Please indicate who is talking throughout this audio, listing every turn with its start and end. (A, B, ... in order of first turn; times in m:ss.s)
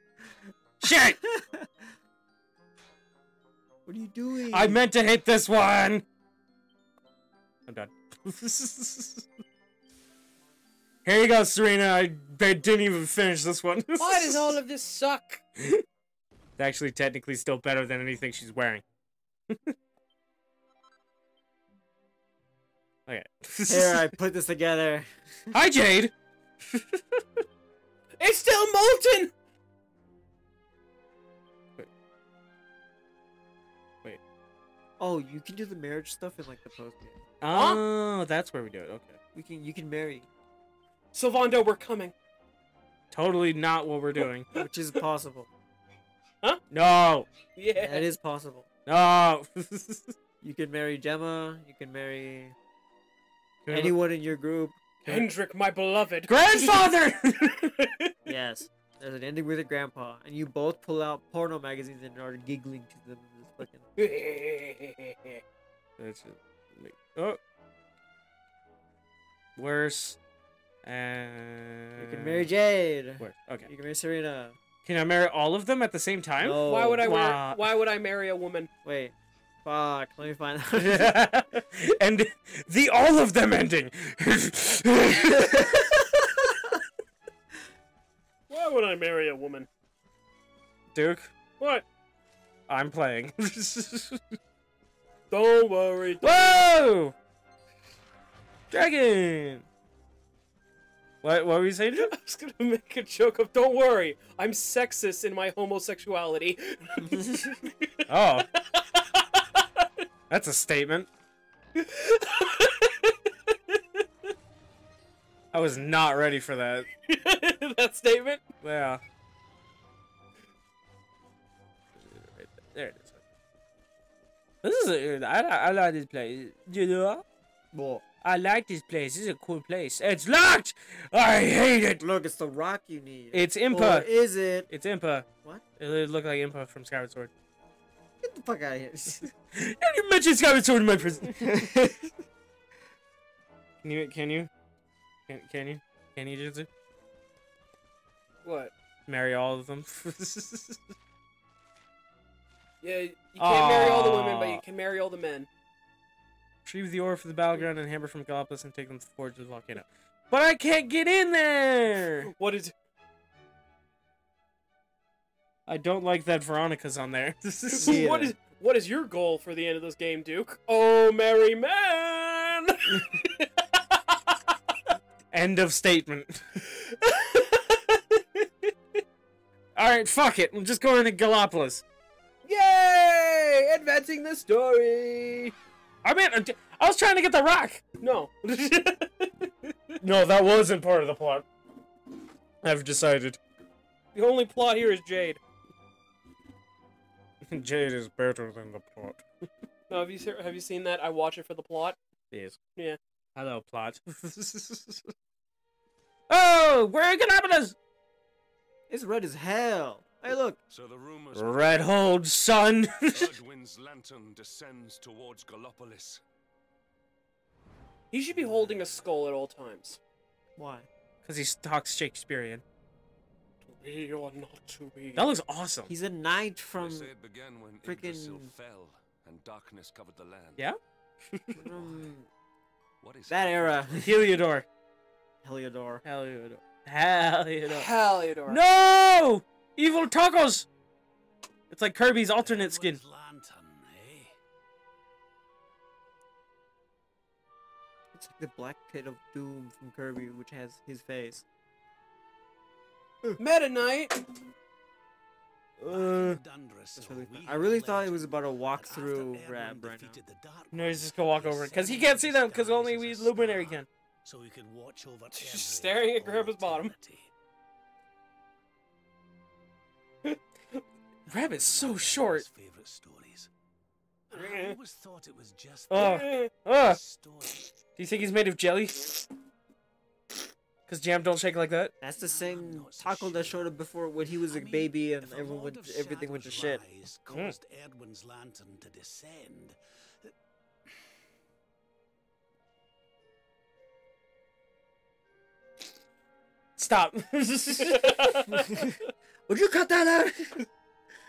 0:00.8-0:01.2 A
0:00.8-0:01.9 B
0:03.8-0:04.8 B
0:04.5-0:06.0 A
0:07.7-0:09.3 A
0:11.0-0:14.6 A
0:14.0-0:15.4 C
0:16.6-0:18.8 A
0:23.1-0:24.1 A
0:23.7-0:25.6 B
0:25.5-0:26.1 A
0:26.7-0:27.2 A
0:28.2-0:29.3 C
0:35.0-0:37.2 B
0:37.4-0:39.2 A
0:37.5-0:37.8 C
0:39.3-0:40.3 B
0:41.1-0:42.1 C
0:43.1-0:44.5 A
0:44.5-0:45.5 B
0:46.7-0:47.3 A
0:47.5-0:48.1 C
0:47.8-0:48.7 B
0:48.8-0:50.1 A
0:50.4-0:52.6 B
0:53.6-0:54.0 A
0:53.7-0:54.8 B
0:55.0-0:56.8 C
0:56.3-0:57.7 A
0:57.6-0:58.1 C
0:58.2-1:03.8 B
1:04.0-1:05.4 C
1:06.0-1:07.4 A
1:09.6-1:10.2 A
1:10.8-1:12.5 A
1:12.0-1:14.6 B
1:13.2-1:13.7 A
1:14.8-1:17.6 A
1:16.4-1:17.0 B
1:16.7-1:18.7 C
1:18.8-1:21.2 B
1:20.8-1:26.8 A
1:25.4-1:25.8 B
1:28.5-1:29.7 C
1:30.9-1:31.3 A
1:31.6-1:31.8 C
1:32.7-1:34.4 A
1:35.3-1:36.6 C
1:36.2-1:37.1 A
1:38.7-1:39.6 A
1:41.2-1:42.1 A
1:42.0-1:47.9 C
1:48.1-1:48.5 A
1:48.6-1:49.8 C
1:50.3-1:51.1 A
1:51.8-1:54.0 C
1:55.5-1:56.9 A
1:57.1-1:58.4 C
1:58.6-1:59.0 A
2:02.0-2:03.2 A
2:04.6-2:07.2 A
2:07.7-2:08.0 B
2:08.2-2:12.0 A
2:12.0-2:14.7 B
2:13.3-2:14.1 A
2:14.7-2:17.3 A
2:18.2-2:19.3 B
2:19.5-2:21.7 A
2:21.3-2:22.1 B
2:23.8-2:24.5 A
2:25.3-2:26.7 A
2:28.4-2:28.7 C
2:29.1-2:30.9 A
2:32.8-2:35.5 C
2:33.4-2:34.6 A
2:36.6-2:42.3 A
2:42.3-2:42.7 C
2:45.7-2:48.1 A
2:47.7-2:54.2 C
2:47.8-2:48.3 B
2:55.3-2:56.4 A
2:56.6-2:58.7 C
2:59.7-3:01.8 A
3:02.4-3:05.5 C
3:06.0-3:07.8 A
3:08.0-3:10.0 C
3:10.0-3:11.4 A
3:12.6-3:13.4 A
3:14.1-3:15.4 C
3:17.5-3:19.2 A
3:19.9-3:22.0 C
3:22.3-3:22.6 A
3:23.4-3:25.1 A
3:26.3-3:27.8 A
3:28.9-3:30.6 B
3:30.7-3:31.9 D
3:31.3-3:33.3 A
3:33.1-3:36.2 D
3:38.1-3:40.0 C
3:40.6-3:40.9 B
3:41.2-3:42.6 A
3:43.6-3:45.2 C
3:45.2-3:45.9 A
3:45.9-3:47.1 B
3:46.8-3:50.7 D
3:47.8-3:48.5 B
3:50.6-3:51.7 A
3:51.6-3:52.3 B
3:51.7-3:52.0 D
3:53.0-3:54.4 D
3:53.3-3:54.2 B
3:54.0-3:54.6 A
3:55.4-3:56.0 B
3:56.0-3:57.9 A
3:57.7-3:58.6 C
3:58.5-4:00.7 A
4:01.7-4:03.0 A
4:02.4-4:04.4 E
4:08.1-4:11.4 B
4:13.4-4:14.2 C
4:15.8-4:16.4 A
4:15.9-4:27.3 E
4:16.9-4:20.2 B
4:20.7-4:23.9 A
4:25.3-4:26.9 C
4:31.3-4:33.5 E
4:31.3-4:32.4 A
4:34.3-4:36.3 E
4:34.3-4:34.7 A
4:35.9-4:37.0 A
4:36.1-4:36.5 C
4:36.8-4:37.7 E
4:38.0-4:39.3 A
4:40.9-4:41.9 A
4:42.0-4:46.8 B
4:42.1-4:43.8 E
4:44.3-4:50.3 E
4:56.8-4:58.5 A
4:57.8-4:58.6 C
4:58.5-5:00.6 B